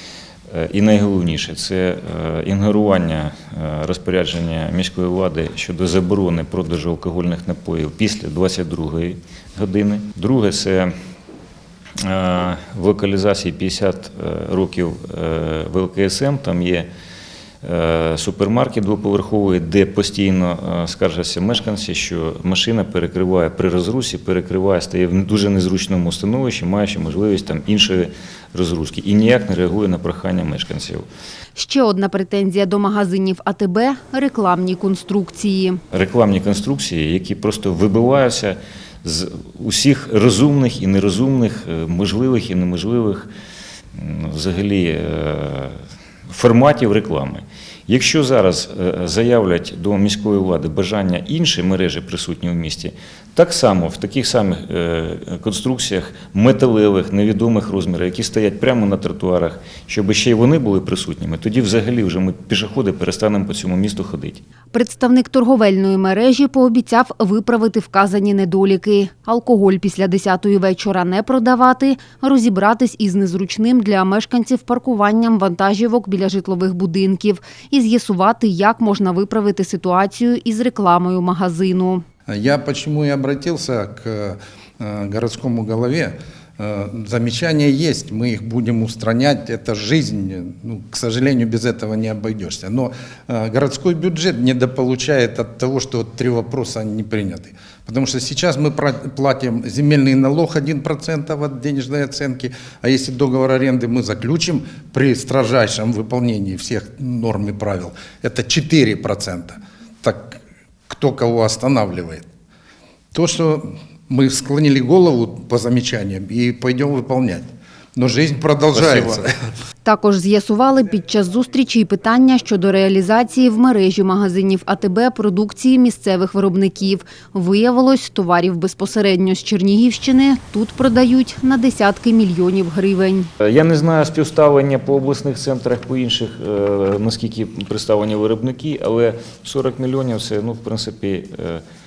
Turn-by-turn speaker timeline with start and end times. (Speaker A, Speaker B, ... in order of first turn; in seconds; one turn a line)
Speaker A: 0.5-10.9
Speaker A: 12.0-16.9
Speaker A: 17.6-31.1
Speaker B: 31.6-35.8
Speaker A: 35.9-43.3
Speaker A: 44.0-64.4
Speaker B: 64.7-82.0
Speaker C: 82.3-112.2
Speaker C: 113.1-119.3
Speaker A: 118.8-119.2
Speaker B: 119.8-133.3
Speaker A: 133.4-141.6